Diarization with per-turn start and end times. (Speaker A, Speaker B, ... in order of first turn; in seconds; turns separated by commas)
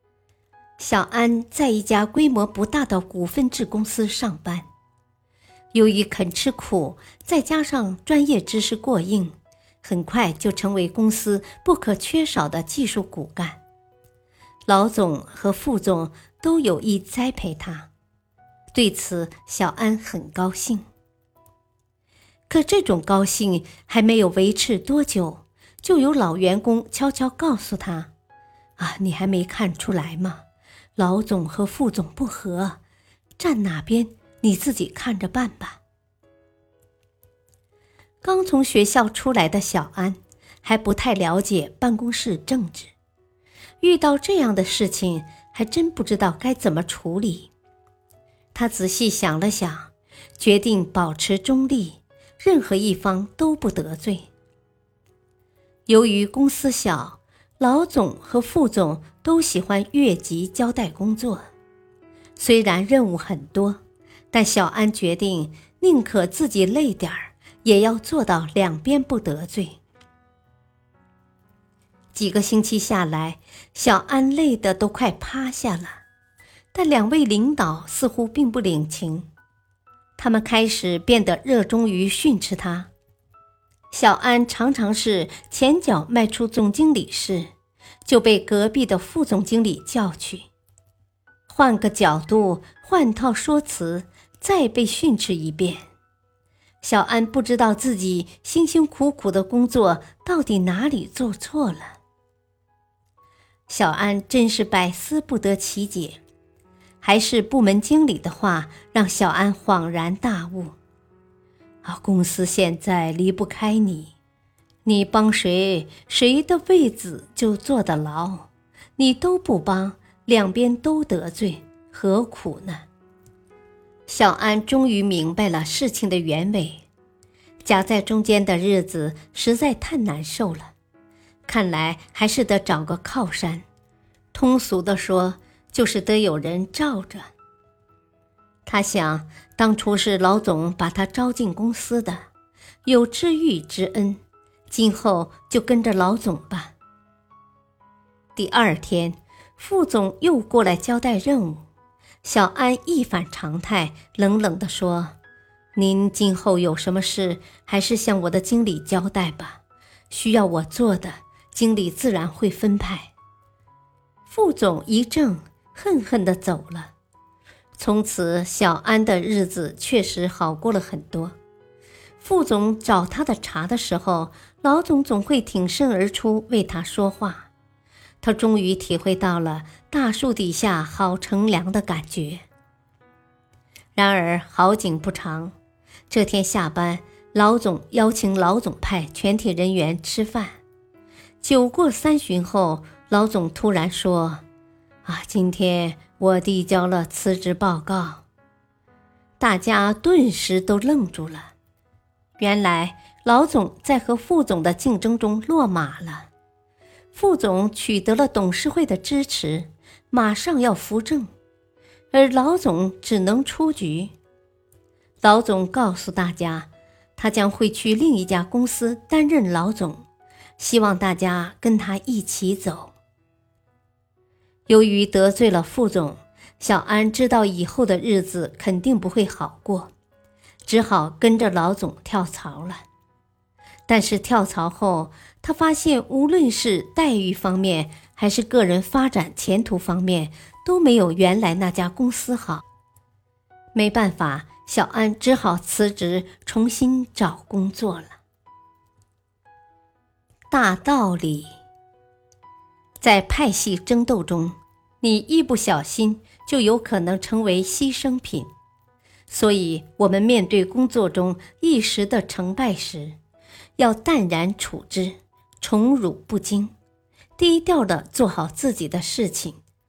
Speaker A: 0.8-4.7, Speaker A: 5.7-13.6, Speaker A: 14.7-17.9, Speaker A: 18.7-20.9, Speaker A: 22.5-28.1, Speaker A: 28.8-30.4, Speaker A: 31.0-32.8, Speaker A: 33.4-35.8, Speaker A: 38.2-42.9, Speaker A: 43.8-47.5, Speaker A: 48.5-54.3, Speaker A: 55.9-61.4, Speaker A: 62.4-63.8, Speaker A: 64.3-69.8, Speaker A: 72.1-76.0, Speaker A: 76.7-79.3, Speaker A: 80.2-82.9, Speaker A: 83.9-87.5, Speaker A: 88.0-90.5, Speaker A: 91.5-95.8, Speaker A: 96.8-102.0, Speaker A: 103.7-106.2, Speaker A: 107.0-110.7, Speaker A: 111.8-114.1, Speaker A: 114.8-122.8, Speaker A: 124.1-126.8, Speaker A: 127.6-130.7, Speaker A: 131.5-133.7, Speaker A: 134.3-137.3, Speaker A: 138.7-142.3, Speaker A: 142.8-146.7, Speaker A: 148.3-151.6, Speaker A: 152.2-155.2, Speaker A: 155.8-163.1, Speaker A: 164.3-166.9, Speaker A: 167.8-171.4, Speaker A: 172.2-177.5, Speaker A: 178.2-182.4, Speaker A: 183.9-185.5, Speaker A: 186.1-190.6, Speaker A: 191.4-194.4, Speaker A: 195.1-198.2, Speaker A: 199.4-201.5, Speaker A: 202.4-206.3, Speaker A: 207.1-211.3, Speaker A: 212.1-214.1, Speaker A: 215.2-220.0, Speaker A: 220.6-222.9, Speaker A: 224.7-229.9, Speaker A: 230.7-232.8, Speaker A: 233.9-242.6, Speaker A: 243.7-248.2, Speaker A: 250.5-251.5, Speaker A: 253.0-258.5, Speaker A: 259.3-263.2, Speaker A: 263.8-266.7, Speaker A: 267.4-269.6